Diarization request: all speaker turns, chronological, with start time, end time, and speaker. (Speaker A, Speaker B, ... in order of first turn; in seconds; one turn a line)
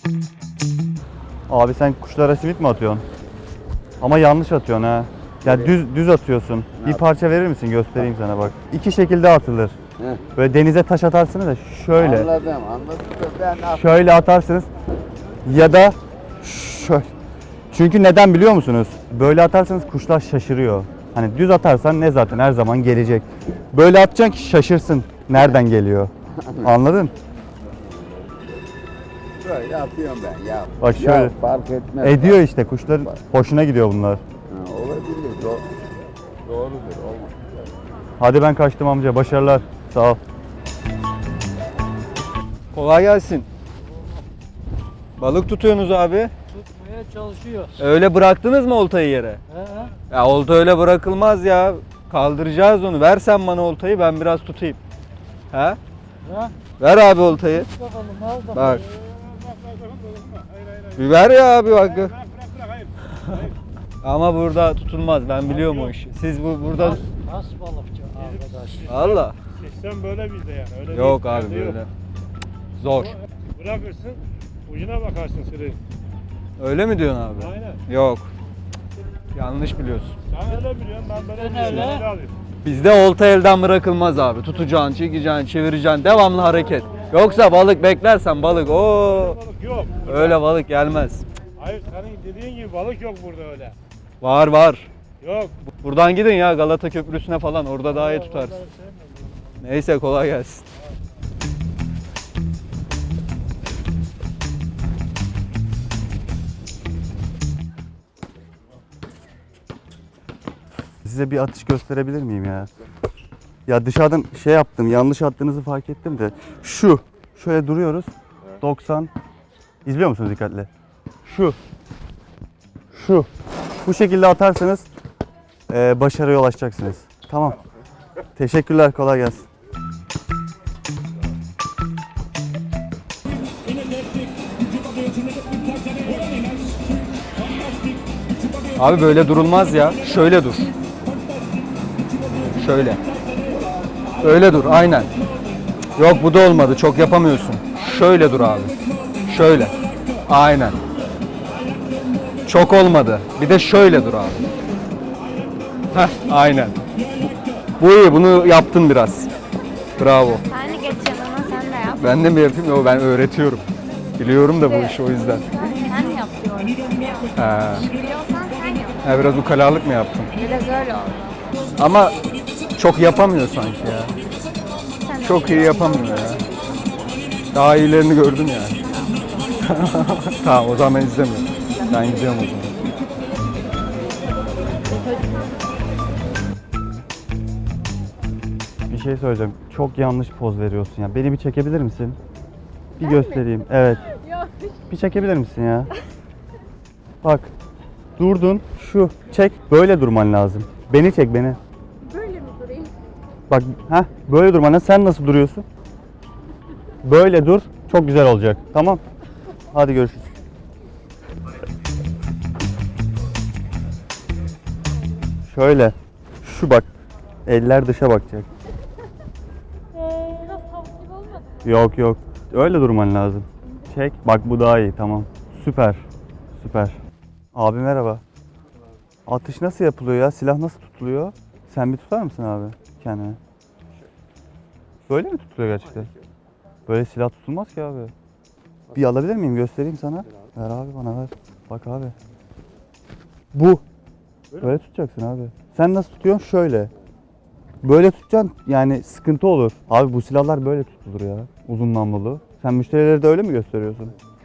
Speaker A: 1.5-3.0
Speaker A: 4.0-9.8
Speaker A: 10.4-12.3
Speaker B: 11.9-13.8
Speaker A: 13.7-14.7
Speaker A: 15.4-17.1
Speaker A: 17.7-26.1
Speaker A: 26.6-27.1
Speaker B: 27.9-28.2
Speaker B: 29.4-32.4
Speaker A: 30.8-31.4
Speaker A: 32.0-34.2
Speaker B: 34.5-35.7
Speaker B: 36.5-37.5
Speaker A: 38.2-40.2
Speaker C: 42.7-43.5
Speaker C: 45.2-46.3
Speaker D: 46.8-47.7
Speaker C: 47.8-49.4
Speaker C: 50.1-54.8
Speaker C: 55.5-55.8
Speaker C: 56.8-57.7
Speaker D: 57.8-58.5
Speaker C: 58.5-58.8
Speaker E: 59.0-60.9
Speaker C: 61.0-62.1
Speaker E: 62.2-62.9
Speaker C: 63.1-63.5
Speaker C: 64.0-67.1
Speaker D: 66.8-68.9
Speaker E: 68.2-71.8
Speaker C: 68.9-69.4
Speaker C: 70.9-71.9
Speaker C: 72.8-73.2
Speaker E: 73.6-75.8
Speaker C: 76.6-78.3
Speaker E: 77.5-77.8
Speaker C: 79.3-80.2
Speaker E: 80.3-82.3
Speaker C: 81.7-81.9
Speaker C: 82.6-89.4
Speaker E: 89.4-90.3
Speaker C: 90.0-91.2
Speaker E: 91.6-93.8
Speaker C: 94.2-94.9
Speaker E: 95.2-95.5
Speaker C: 95.8-98.7
Speaker C: 99.6-100.7
Speaker A: 111.0-112.7
Speaker A: 113.7-119.1
Speaker A: 119.8-120.7
Speaker A: 121.2-121.6
Speaker A: 122.9-123.3
Speaker A: 123.8-124.9
Speaker A: 125.7-127.6
Speaker A: 128.4-129.5
Speaker C: 138.8-140.7
Speaker C: 142.5-143.0
Speaker C: 144.2-145.1
Speaker C: 146.0-148.7
Speaker C: 149.2-149.8
Speaker C: 150.3-150.8
Speaker C: 152.4-154.4
Speaker C: 155.9-156.8
Speaker C: 157.8-159.3
Speaker C: 160.0-160.5
Speaker F: 160.5-162.0
Speaker C: 162.0-163.7
Speaker C: 164.2-165.4
Speaker F: 164.7-167.3
Speaker C: 167.4-167.9
Speaker F: 167.8-169.0
Speaker C: 169.0-170.3
Speaker F: 170.3-171.4
Speaker C: 171.8-172.1
Speaker C: 172.8-174.2
Speaker F: 175.0-176.4
Speaker C: 175.2-176.4
Speaker C: 177.5-178.8
Speaker C: 179.6-182.8
Speaker F: 184.9-185.4
Speaker A: 188.9-192.2
Speaker A: 193.0-194.1
Speaker F: 194.2-194.7
Speaker A: 194.9-195.9
Speaker A: 197.2-197.5
Speaker A: 198.2-201.6
Speaker F: 202.1-202.9
Speaker A: 203.5-205.7
Speaker A: 207.0-209.0
Speaker A: 209.7-210.3
Speaker A: 215.5-216.9
Speaker A: 217.5-218.5
Speaker A: 221.6-226.1
Speaker A: 226.6-227.0
Speaker A: 227.6-228.2
Speaker A: 229.3-233.4
Speaker A: 235.1-236.1
Speaker A: 236.9-238.1
Speaker A: 238.9-242.1
Speaker A: 243.5-243.8
Speaker A: 244.6-246.9
Speaker A: 247.8-254.1